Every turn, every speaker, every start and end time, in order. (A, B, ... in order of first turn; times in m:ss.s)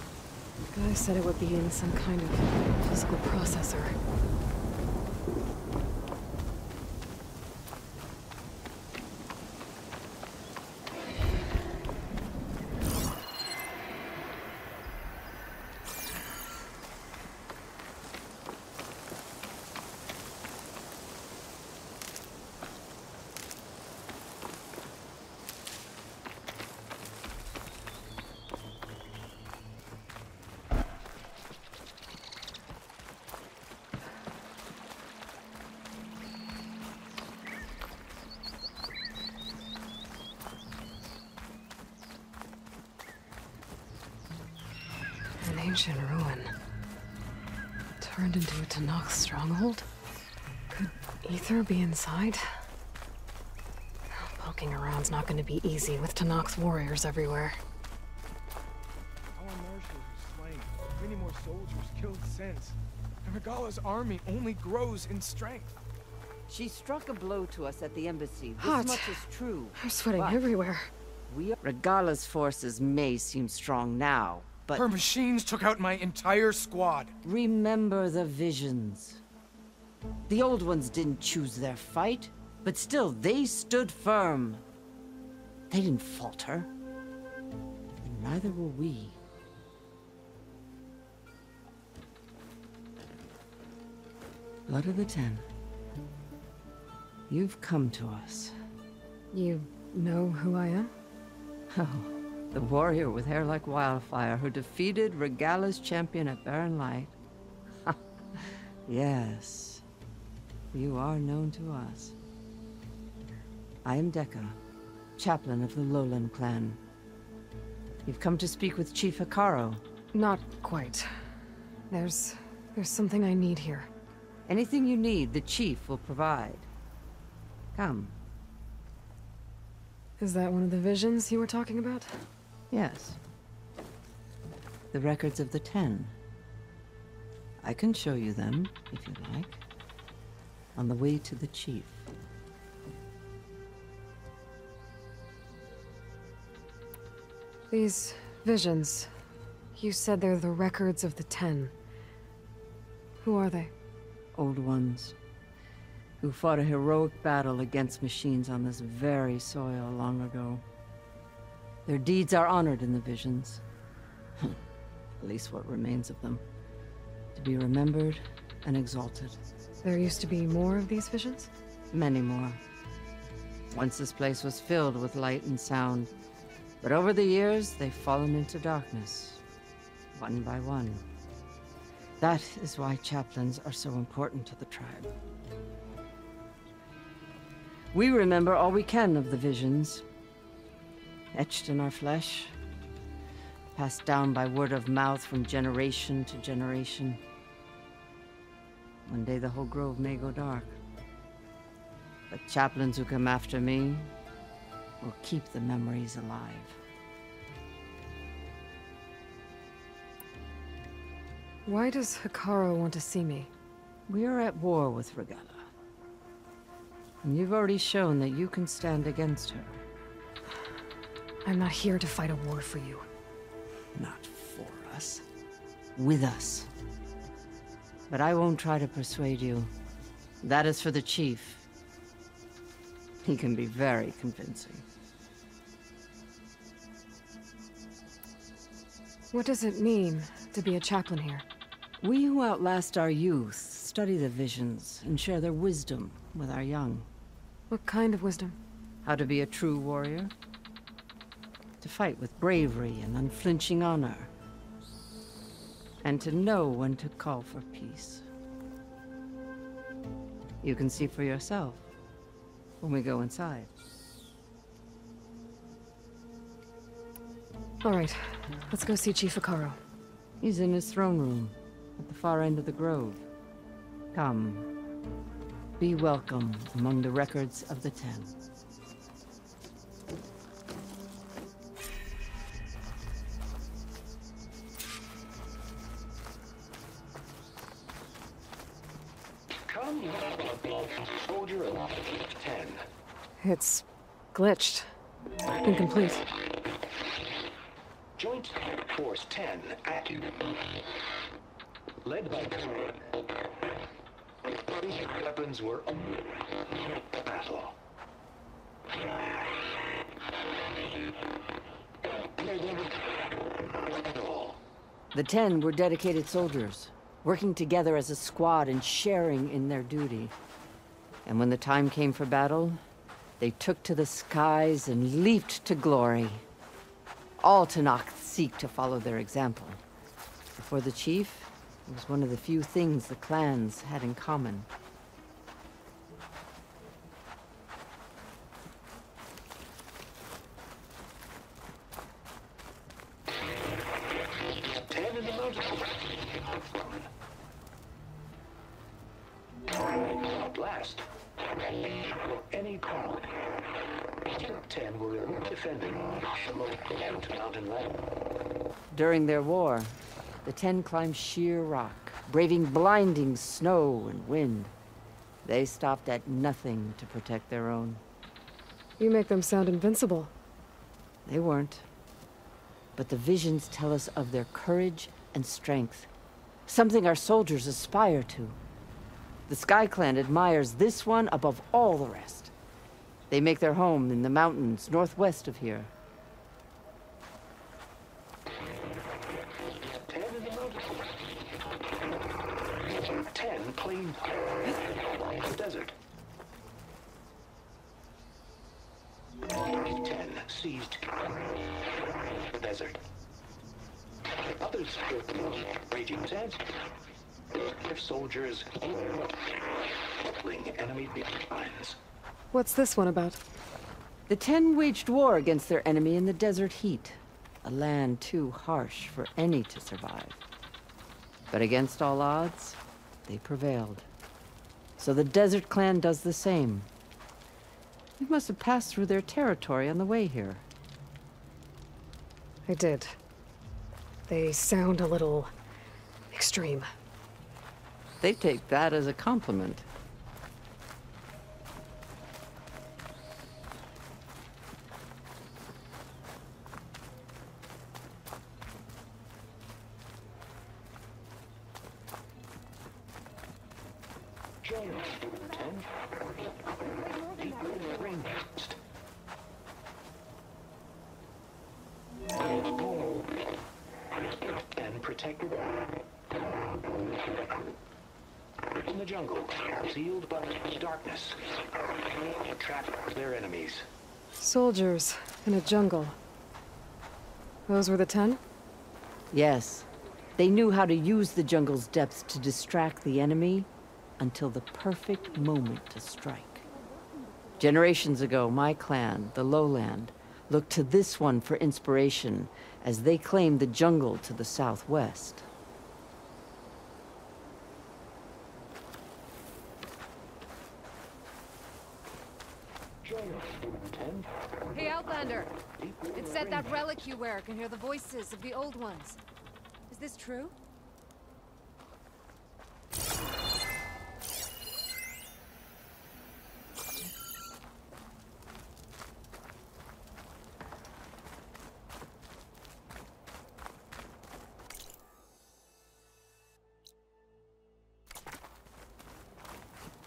0:00.7-0:04.0 A
0:45.4-0:46.5 A
0:48.0-0:49.9 A
0:50.7-0:52.5 A
0:54.1-0:57.6 A
0:59.4-1:05.8 B
1:06.5-1:10.4 C
1:08.6-1:09.3 A
1:09.8-1:10.9 A
1:11.3-1:14.9 C
1:14.7-1:17.1 B
1:17.2-1:19.2 C
1:20.3-1:24.6 C
1:25.7-1:26.7 C
1:28.0-1:29.2 C
1:34.7-1:35.5 C
1:37.3-1:38.6 C
1:39.3-1:40.9 A
1:41.7-1:47.1 C
1:47.8-1:49.8 C
1:50.7-1:52.2 C
1:53.8-1:54.6 C
1:55.2-1:56.8 C
1:58.1-1:59.8 C
2:00.1-2:01.1 A
2:01.9-2:03.9 A
2:04.5-2:06.7 C
2:07.8-2:08.2 C
2:10.2-2:12.2 A
2:12.7-2:13.2 C
2:14.9-2:16.2 C
2:17.6-2:19.6 C
2:20.8-2:22.1 C
2:27.7-2:29.1 A
2:29.8-2:31.7 A
2:33.2-2:33.7 A
2:34.4-2:35.2 C
2:36.2-2:40.6 C
2:41.9-2:43.6 C
2:45.2-2:46.4 C
2:47.4-2:49.4 C
2:49.8-2:51.5 A
2:51.9-2:52.6 C
2:53.7-2:56.1 C
2:56.8-2:59.4 C
3:00.1-3:01.0 C
3:02.2-3:05.1 C
3:07.9-3:10.0 C
3:11.3-3:12.6 C
3:13.8-3:17.2 C
3:19.1-3:20.8 C
3:22.3-3:24.1 C
3:25.0-3:26.8 C
3:31.7-3:33.5 A
3:34.1-3:35.7 C
3:37.2-3:39.8 C
3:41.4-3:43.0 A
3:43.9-3:45.2 C
3:46.0-3:46.7 C
3:48.1-3:49.7 C
3:50.4-3:51.6 C
3:53.2-3:54.8 C
3:59.3-4:01.5 A
4:02.0-4:07.1 C
4:07.7-4:08.6 A
4:09.0-4:10.3 C
4:11.8-4:14.3 C
4:16.0-4:18.3 C
4:20.6-4:21.8 C
4:22.8-4:23.7 C
4:27.8-4:28.2 A
4:28.7-4:29.8 A
4:30.4-4:33.3 C
4:34.1-4:34.7 C
4:35.8-4:38.3 C
4:49.7-4:52.8 D
4:53.4-4:54.9 A
4:55.6-4:56.2 A
4:58.2-5:00.6 D
5:02.0-5:03.2 D
5:04.4-5:07.8 D
5:12.1-5:14.6 D
5:15.1-5:20.4 C
5:21.2-5:22.8 C
5:23.4-5:26.5 C
5:27.4-5:29.8 C
5:30.6-5:34.7 C
5:44.4-5:47.1 D
5:49.8-5:51.1 D
5:51.6-5:53.5 D
5:54.2-5:58.1 D
5:58.9-6:04.7 C
6:05.4-6:08.0 C
6:09.0-6:10.3 A
6:11.3-6:11.9 C
6:13.0-6:16.1 C
6:16.7-6:18.6 C
6:19.5-6:22.5 C
6:23.3-6:25.9 C
6:29.7-6:31.4 D
6:32.8-6:36.0 D
6:39.7-6:41.3 D
6:42.3-6:43.0 D
6:44.3-6:46.8 D
6:47.6-6:52.0 D
6:52.5-6:53.4 A
6:54.3-7:00.4 C
7:01.5-7:04.1 C
7:05.0-7:06.9 C
7:08.2-7:10.6 C
7:12.7-7:13.2 A
7:14.3-7:15.5 A
7:16.3-7:16.9 A
7:18.2-7:19.9 C
7:34.6-7:35.9 D
7:37.2-7:38.8 D
7:42.4-7:43.5 D
7:44.2-7:45.9 D
7:48.8-7:53.9 D
7:54.4-7:56.2 A
7:57.7-7:58.4 A
7:59.3-8:06.7 C
8:07.6-8:15.5 C
8:23.0-8:24.3 D
8:24.8-8:25.4 E
8:25.8-8:26.8 D
8:26.2-8:29.2 E
8:29.9-8:30.5 E